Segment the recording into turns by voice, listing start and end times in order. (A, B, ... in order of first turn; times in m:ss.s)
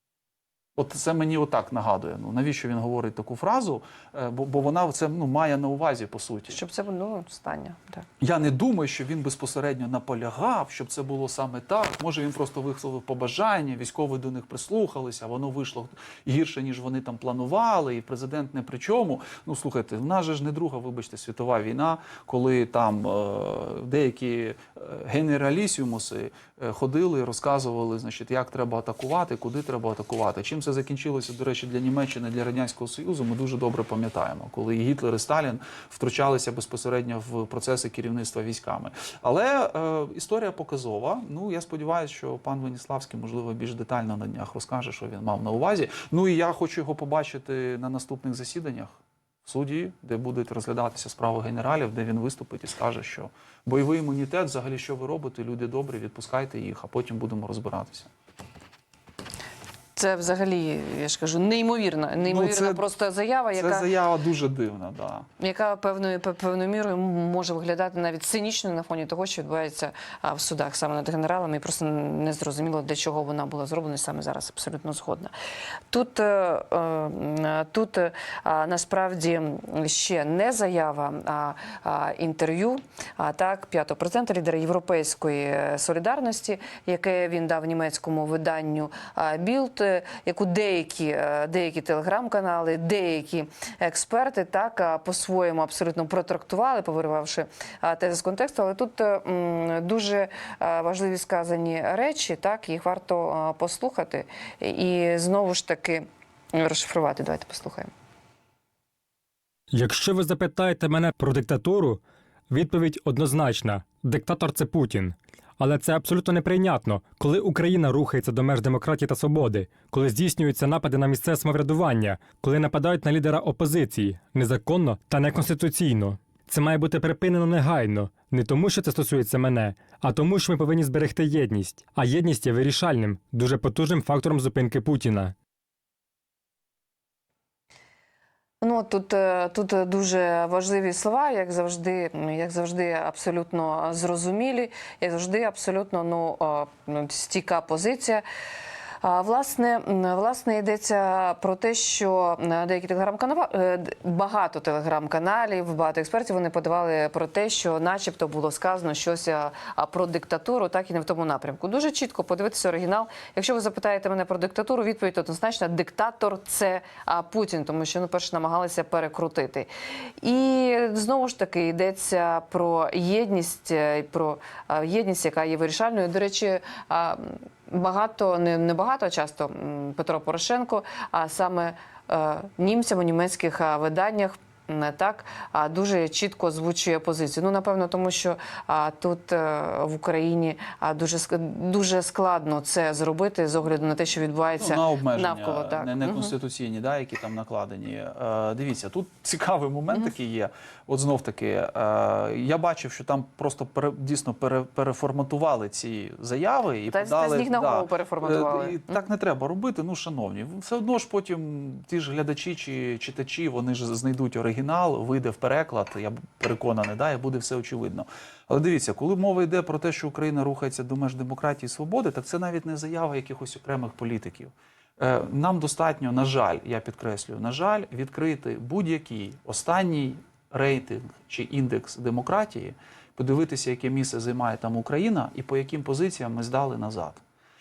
0:00.8-0:06.6 A
0:06.5-0:08.1 B
0:08.2-0:58.1 A
1:00.0-1:03.9 B
1:02.2-1:02.9 A
1:03.6-1:05.3 A
1:05.4-1:15.3 B
1:15.9-1:47.9 B
1:49.7-2:15.4 C
2:18.6-2:28.2 B
2:29.0-2:49.7 B
2:50.2-3:16.3 B
3:14.6-3:57.2 A
3:26.9-3:29.0 B